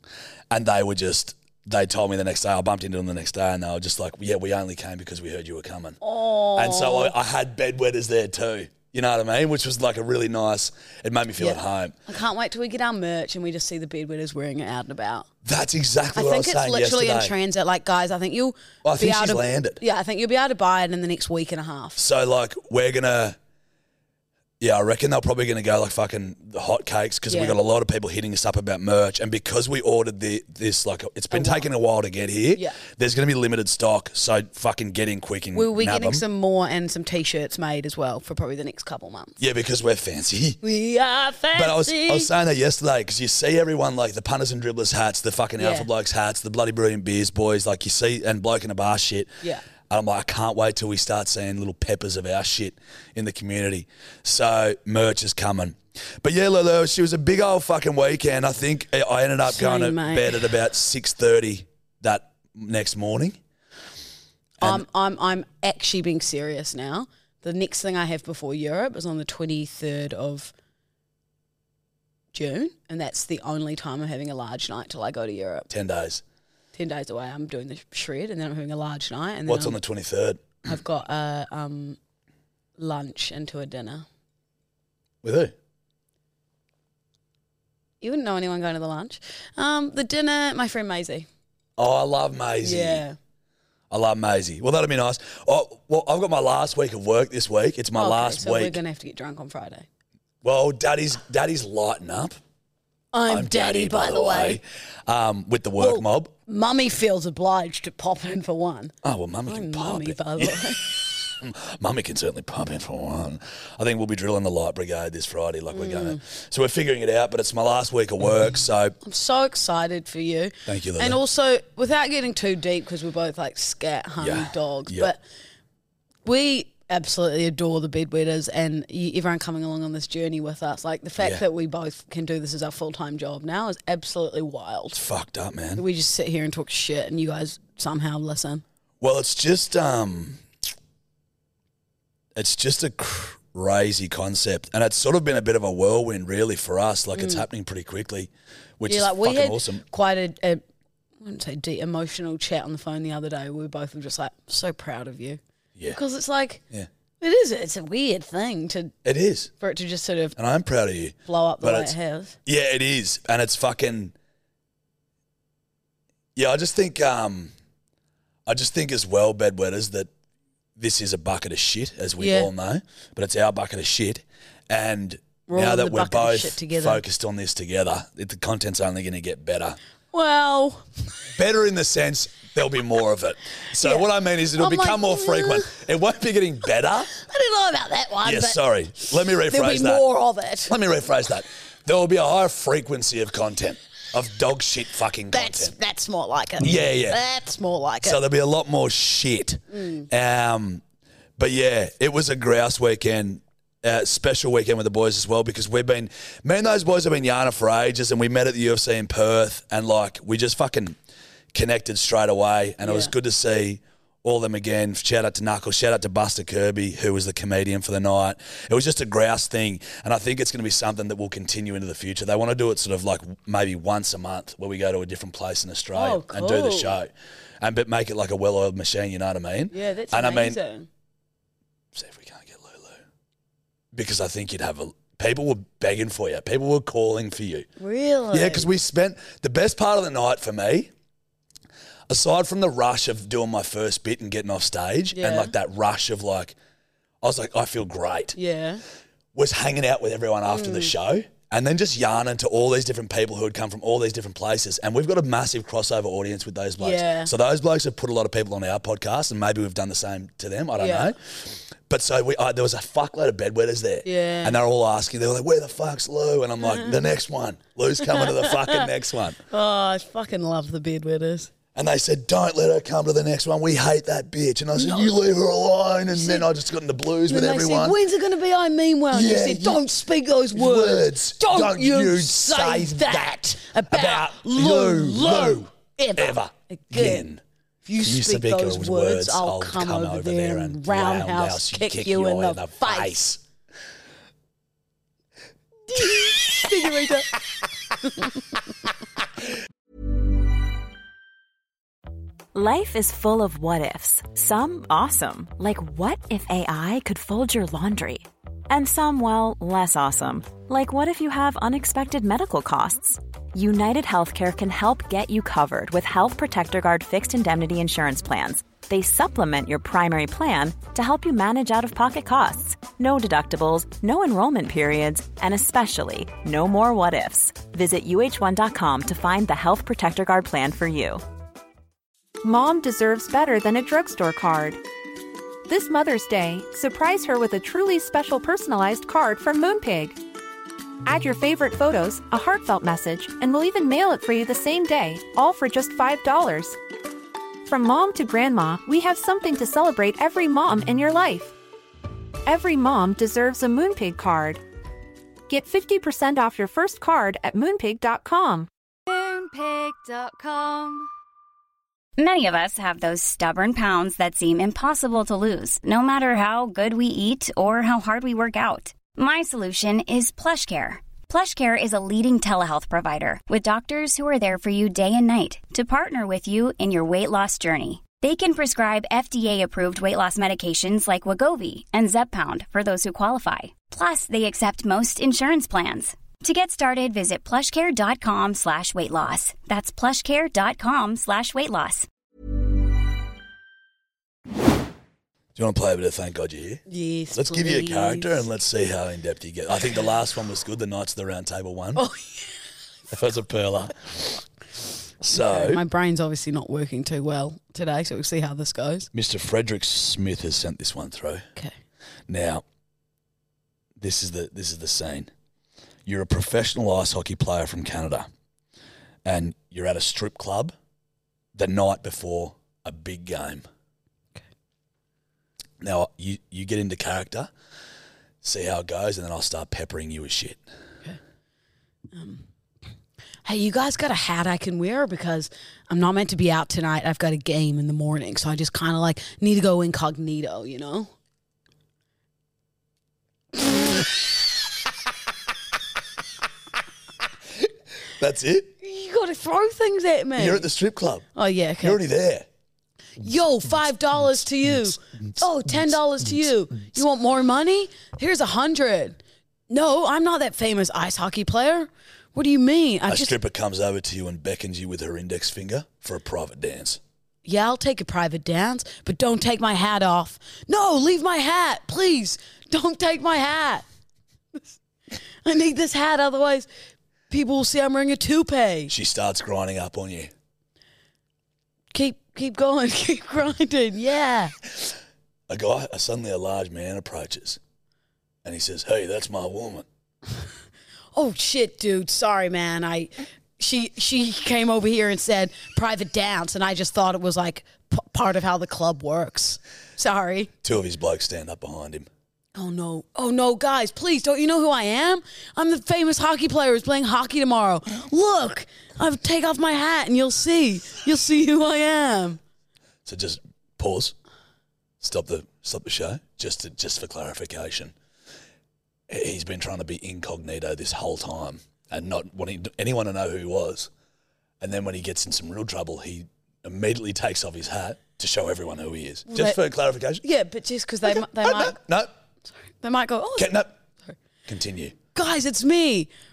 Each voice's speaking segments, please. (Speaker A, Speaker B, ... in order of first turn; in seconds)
Speaker A: 0.5-6.0, 6.5-12.0, 15.4-17.3, 18.8-19.8, 22.0-23.4, 24.6-36.2, 39.4-40.6, 41.5-49.3, 49.9-63.4, 75.7-76.2, 79.5-80.6, 85.2-85.5, 91.8-93.0, 93.9-98.8, 100.4-102.4, 103.3-106.3, 109.0-110.7, 111.4-119.0, 120.7-121.2, 124.2-125.1, 134.9-135.8, 139.0-140.4, 142.3-149.8, 159.1-159.5, 160.4-161.9, 162.5-164.2, 166.4-167.5, 168.5-170.1, 170.8-179.8, 181.4-187.1, 188.2-190.1, 190.7-195.7, 196.6-197.2, 198.0-200.8, 201.4-211.0, 211.5-230.6, 231.9-233.0, 233.9-237.7, 238.3-240.9, 242.1-246.6, 247.2-248.4, 249.3-269.4, 271.8-278.0, 279.1-279.8, 280.5-283.4, 283.9-287.4, 288.0-293.4, 395.6-402.0, 403.1-404.4, 405.2-405.8, 409.1-411.5, 412.3-412.6, 414.0-415.3, 416.1-418.3, 419.2-420.7, 421.6-423.7, 425.8-427.5, 428.4-430.6, 448.2-448.7, 450.4-451.3, 451.8-452.5, 463.1-467.0, 478.9-480.3, 485.5-487.6, 488.4-489.9, 500.6-502.1, 513.0-514.1, 515.0-517.9, 519.1-523.9, 524.6-530.2, 531.0-532.1, 533.4-533.8, 534.5-535.0
Speaker B: 6.0-7.1, 11.4-15.3, 16.1-22.0, 27.3-27.6, 31.3-31.7, 35.5-39.4, 40.6-42.3, 45.6-45.9, 59.5-60.5, 64.6-70.5, 72.3-75.7, 76.8-79.8, 80.6-82.0, 82.8-84.1, 88.0-91.3, 92.6-93.2, 98.0-99.9, 103.1-104.6, 105.8-108.9, 109.5-111.0, 115.7-116.2, 119.0-125.2, 126.2-135.0, 135.8-138.6, 147.2-147.4, 148.9-150.6, 151.2-155.4, 155.9-156.6, 157.2-158.9, 159.6-160.4, 161.3-162.4, 172.2-172.5, 175.5-177.0, 180.1-180.8, 183.8-185.8, 187.1-190.8, 195.3-198.2, 199.7-200.1, 212.8-213.1, 225.9-227.0, 229.7-230.9, 237.8-238.7, 245.1-245.5, 248.4-248.8, 250.5-250.9, 256.8-257.3, 260.8-261.1, 264.1-264.6, 268.0-268.9, 269.5-271.5, 274.8-275.1, 276.1-276.5, 277.3-287.3, 287.9-293.2, 295.9-297.3, 396.9-398.4, 402.0-402.5, 405.3-409.1, 432.1-432.4, 433.4-441.1, 448.8-450.7, 451.4-452.0, 453.2-463.3, 467.4-473.8, 475.4-476.7, 477.3-478.9, 481.9-484.5, 491.1-500.5, 502.6-512.4, 529.3-529.6, 530.2-531.8, 532.8-533.6, 535.1-536.1
Speaker C: 302.5-331.2
Speaker D: 332.4-334.8, 335.7-340.2, 341.1-346.8, 347.7-351.5, 352.4-354.6, 355.5-358.7
Speaker E: 359.1-361.1
Speaker F: 362.2-392.1